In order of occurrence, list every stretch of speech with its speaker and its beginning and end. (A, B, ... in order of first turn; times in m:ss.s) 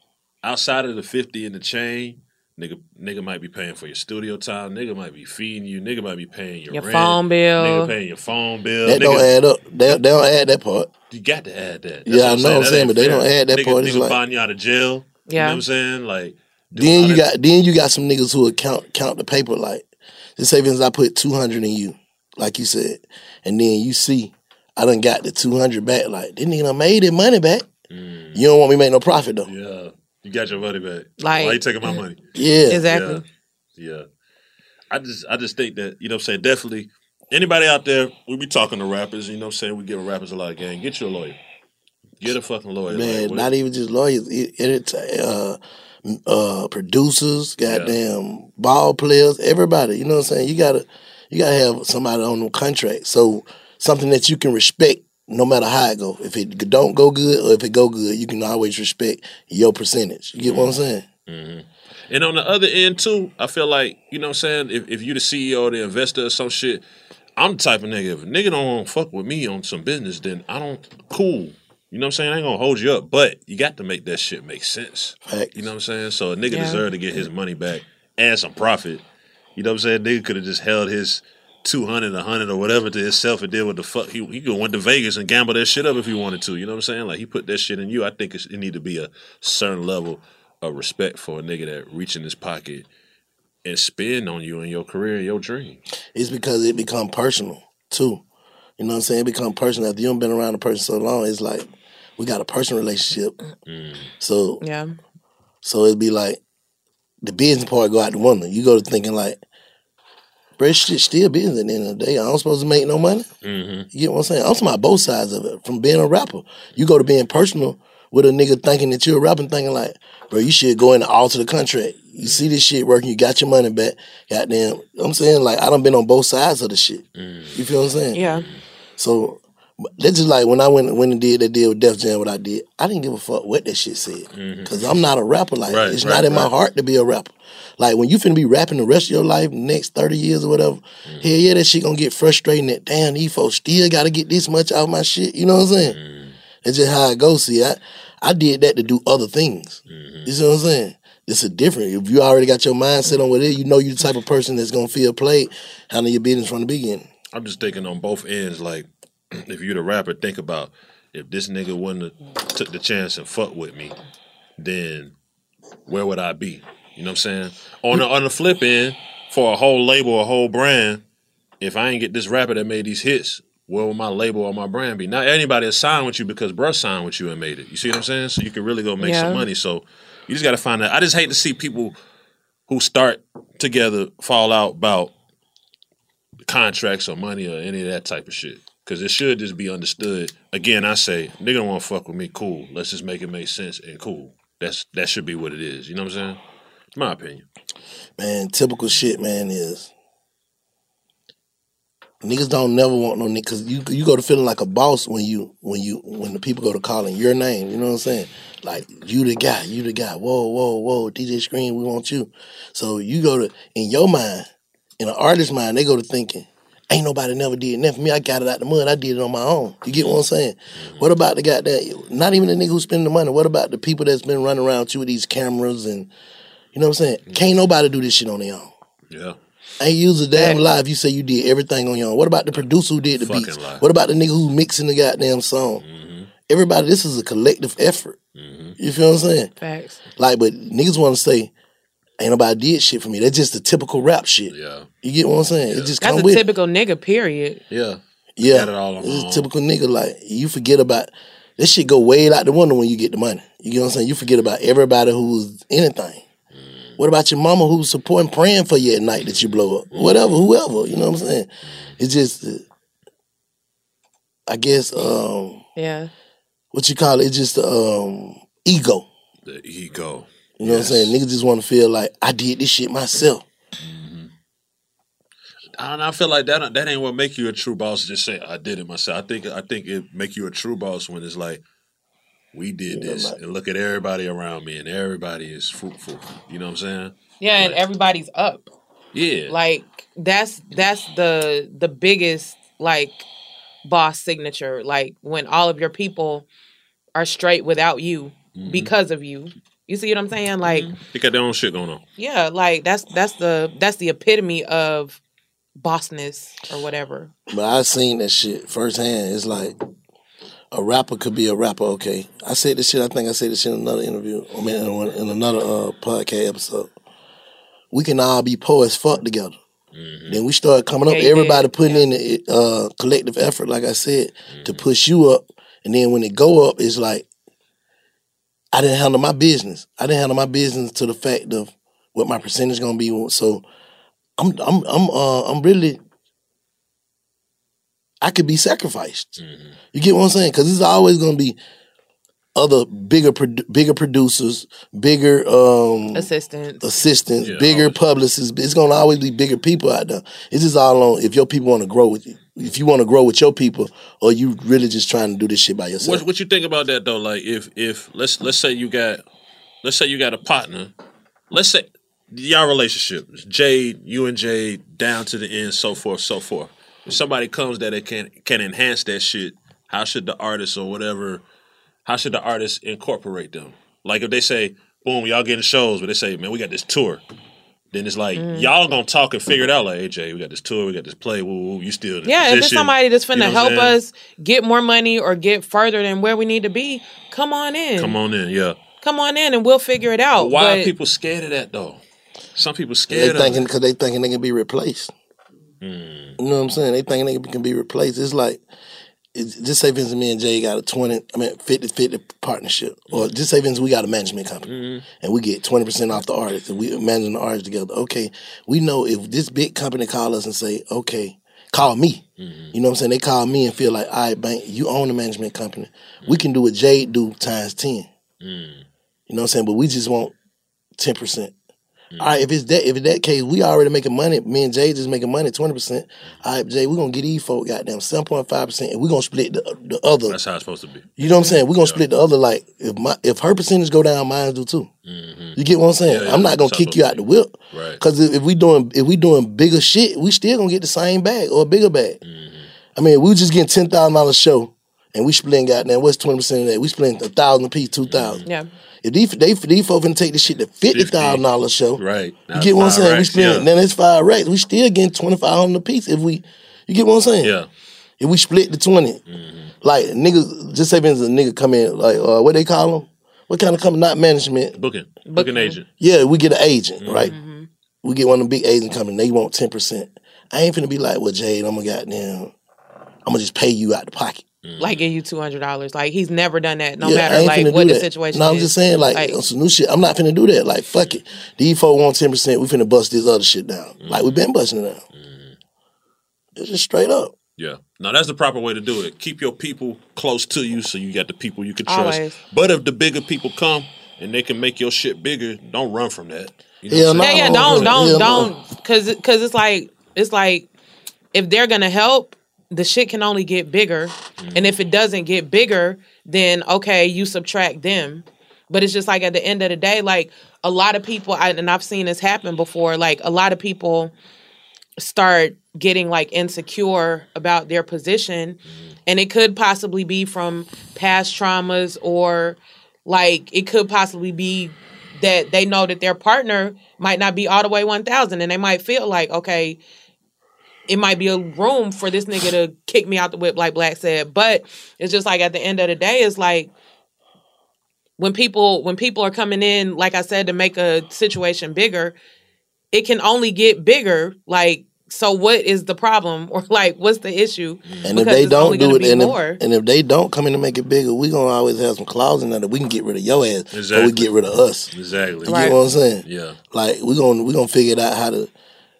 0:00.4-0:09.3 A
0:06.7-0:07.9 B
0:08.8-0:10.9 C
0:11.1-0:17.3 A
0:12.0-0:14.2 C
0:15.3-0:15.6 B
0:16.7-0:27.6 C
0:27.9-0:28.4 A
0:28.3-0:29.5 C
0:29.4-0:32.2 A
0:31.2-0:31.6 B
0:32.3-0:32.8 C
0:32.7-0:33.2 B
0:32.9-0:33.2 A
0:33.8-0:34.0 A
0:34.9-0:41.4 A
0:42.2-0:43.5 A
0:42.9-1:01.0 C
0:47.7-0:48.0 A
1:00.4-1:06.8 A
1:07.4-1:19.0 A
1:15.2-1:15.7 C
1:16.5-1:16.8 B
1:19.6-1:32.8 A
1:33.6-1:35.8 A
1:36.1-1:38.2 C
1:38.8-1:43.3 C
1:43.6-1:44.1 A
1:44.2-1:44.6 C
1:44.6-1:45.0 B
1:45.6-1:46.4 C
1:47.2-1:49.4 C
1:50.6-1:53.3 C
1:53.4-1:53.9 A
1:53.9-2:08.2 C
2:07.2-2:07.6 A
2:08.1-2:08.4 B
2:08.3-2:08.6 A
2:09.0-2:26.0 C
2:14.3-2:15.0 A
2:15.7-2:16.5 A
2:25.9-2:26.4 A
2:26.6-2:37.1 C
2:29.9-2:30.3 A
2:37.3-2:43.9 A
2:44.6-2:45.1 A
2:45.9-2:51.0 A
2:51.6-3:01.9 A
2:59.0-2:59.4 B
3:02.7-3:05.1 A
3:06.4-3:16.4 A
3:16.9-3:17.4 A
3:18.2-3:19.9 C
3:22.2-3:34.4 C
3:35.0-3:46.1 C
3:40.8-3:41.1 A
3:46.7-3:48.7 C
3:49.1-3:49.4 A
3:49.8-3:55.8 C
3:53.2-3:53.8 A
3:55.8-3:56.3 A
3:56.5-3:58.2 C
3:58.4-3:58.8 A
3:58.8-3:59.5 C
3:59.6-4:00.0 B
4:00.2-4:01.5 C
4:02.2-4:06.4 C
4:04.5-4:04.9 A
4:06.0-4:07.6 B
4:07.7-4:09.5 A
4:08.4-4:16.2 C
4:16.5-4:16.9 A
4:17.0-4:22.6 C
4:19.3-4:20.4 A
4:24.5-4:25.6 C
4:25.8-4:26.1 B
4:26.7-4:29.1 C
4:29.4-4:31.1 A
4:30.6-4:33.4 C
4:33.8-4:34.3 A
4:35.8-4:41.6 A
4:42.5-4:47.8 A
4:42.9-4:43.4 C
4:47.4-4:48.7 B
4:49.1-4:49.5 A
4:49.5-4:53.2 B
4:53.8-4:56.4 B
4:57.1-5:00.9 B
4:58.6-4:58.9 A
5:00.6-5:02.0 A
5:02.2-5:05.2 B
5:05.8-5:07.3 B
5:07.5-5:09.8 C
5:10.7-5:16.9 C
5:17.9-5:19.6 C
5:19.9-5:20.4 A
5:20.3-5:27.2 C
5:21.1-5:22.0 B
5:24.5-5:24.8 A
5:28.7-5:33.6 C
5:34.4-5:36.0 C
5:38.2-5:39.3 C
5:39.4-5:39.8 A
5:39.9-5:41.6 C
5:42.5-5:46.3 C
5:46.1-5:46.8 B
5:46.8-5:56.2 C
5:47.4-5:48.0 A
5:56.0-5:59.2 A
5:59.8-6:00.9 A
6:01.5-6:11.4 A
6:12.0-6:17.2 A
6:17.9-6:24.0 A
6:18.4-6:18.7 B
6:22.2-6:28.2 B
6:28.0-6:28.8 A
6:29.0-6:30.9 B
6:30.4-6:32.0 A
6:32.6-6:33.6 A
6:33.1-6:35.1 C
6:35.8-6:36.4 A
6:36.4-6:38.6 C
6:39.3-6:58.1 C
6:44.6-6:45.0 A
6:52.4-6:52.7 A
6:58.4-6:58.8 A
6:59.3-7:00.3 C
7:01.0-7:01.5 C
7:02.2-7:10.4 C
7:10.3-7:11.2 A
7:11.2-7:14.9 C
7:11.7-7:12.0 A
7:15.0-7:18.0 A
7:15.6-7:22.2 C
7:22.2-7:22.7 A
7:22.9-7:28.4 C
7:28.1-7:28.4 A
7:29.0-7:32.0 C
7:30.9-7:31.4 A
7:32.0-7:33.7 A
7:32.5-7:37.6 C
7:37.4-7:37.7 A
7:38.2-7:39.2 C
7:39.3-7:39.7 A
7:39.8-7:44.8 C
7:44.7-7:45.8 A
7:45.3-7:45.8 B
7:46.0-7:47.3 C
7:47.0-7:47.3 A
7:47.3-7:47.7 B
7:48.0-7:52.5 C
7:53.2-7:54.4 C
7:54.6-7:55.1 A
7:54.8-7:59.4 B
7:57.0-8:05.0 C
8:04.0-8:04.3 A
8:05.1-8:05.6 A
8:06.5-8:07.3 C
8:07.6-8:18.2 A
8:11.8-8:12.3 B
8:16.9-8:18.5 C
8:17.2-8:20.7 B
8:21.3-8:34.1 B
8:24.4-8:24.7 A
8:35.0-8:49.8 B
8:50.9-8:56.7 B
8:58.2-9:02.2 B
9:02.9-9:09.6 B
9:07.9-9:08.1 A
9:08.0-9:14.9 C
9:13.7-9:14.3 A
9:14.9-9:16.6 A
9:15.4-9:18.5 C
9:15.5-9:15.7 B